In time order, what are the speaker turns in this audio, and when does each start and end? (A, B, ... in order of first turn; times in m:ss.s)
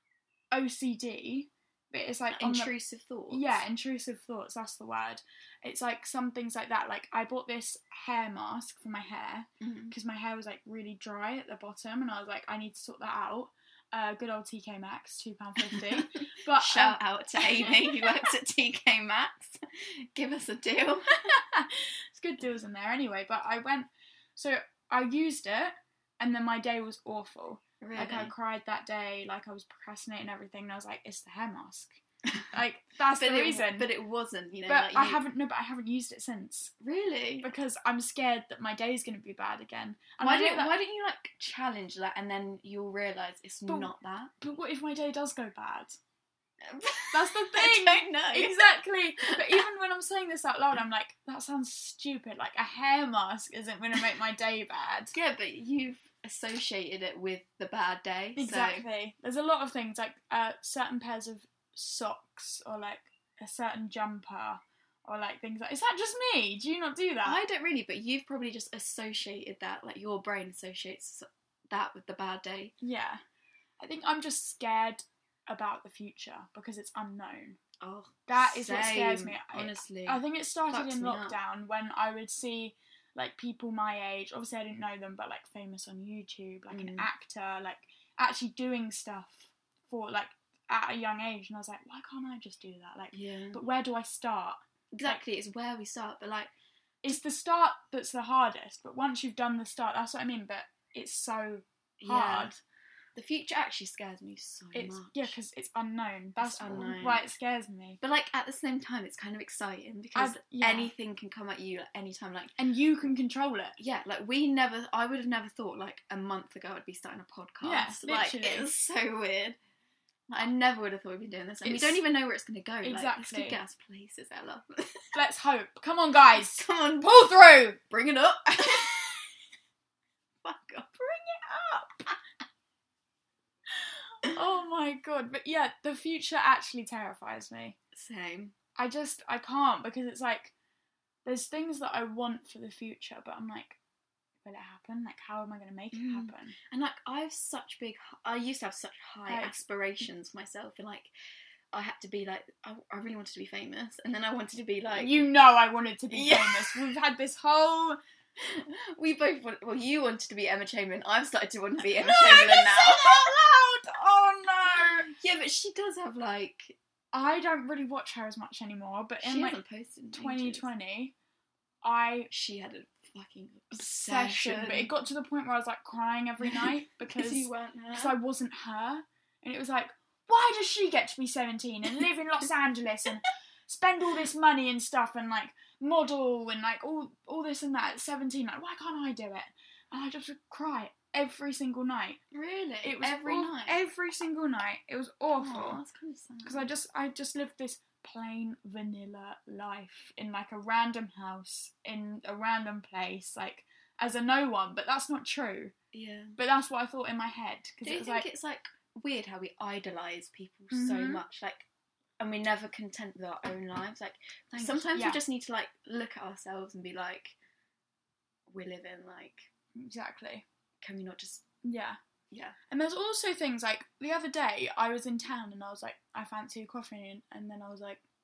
0:00.5-0:02.7 A
0:02.3-0:03.6 B
0:03.3-0:18.2 A
0:09.6-0:09.9 B
0:16.0-0:21.2 B
0:21.3-0:32.0 A
0:27.8-0:28.3 B
0:32.5-0:33.9 A
0:33.2-0:35.2 B
0:34.7-0:36.7 A
0:36.8-0:37.5 B
0:37.4-0:40.8 A
0:40.2-0:44.3 B
0:43.7-0:46.0 A
0:46.7-0:48.7 B
0:47.1-0:55.1 A
0:55.1-0:58.9 B
0:58.4-1:07.4 A
1:07.2-1:12.7 B
1:12.8-1:13.2 A
1:13.8-1:17.6 A
1:17.8-1:21.4 B
1:18.3-1:35.2 A
1:26.7-1:27.1 B
1:33.1-1:33.6 B
1:34.9-1:36.5 B
1:37.0-1:42.6 A
1:42.0-1:42.6 B
1:43.2-1:45.3 B
1:44.7-1:48.0 A
1:46.4-1:47.3 B
1:48.0-1:52.6 B
1:50.2-1:50.9 A
1:52.6-1:53.8 A
1:53.8-1:59.6 B
1:57.6-1:58.7 A
2:00.3-2:05.2 B
2:01.6-2:02.0 A
2:02.8-2:03.6 A
2:05.1-2:06.6 A
2:06.3-2:09.2 B
2:10.4-2:11.8 B
2:14.3-2:17.8 A
2:18.0-2:18.5 B
2:18.8-2:20.5 A
2:21.2-2:23.8 A
2:24.4-2:26.6 A
2:25.9-2:31.1 B
2:29.3-2:29.6 A
2:31.7-2:35.2 B
2:34.9-2:38.0 A
2:36.1-2:36.8 B
2:38.4-2:43.3 B
2:42.0-2:45.1 A
2:45.0-2:46.8 B
2:47.1-2:49.6 A
2:49.2-2:50.7 B
2:50.1-2:51.1 A
2:51.8-2:52.3 A
2:52.3-2:54.9 B
2:53.7-3:12.2 A
2:56.4-2:58.2 B
3:12.3-3:13.8 B
3:12.8-3:15.8 A
3:15.4-3:16.7 B
3:16.4-3:25.7 A
3:25.9-3:26.4 B
3:26.4-3:28.3 A
3:27.8-3:31.7 B
3:30.7-3:31.2 A
3:32.2-3:37.4 B
3:34.6-3:35.2 A
3:38.5-3:39.5 B
3:39.8-3:40.4 A
3:40.8-3:41.4 B
3:41.6-3:42.0 A
3:42.3-3:42.6 B
3:42.7-3:48.0 A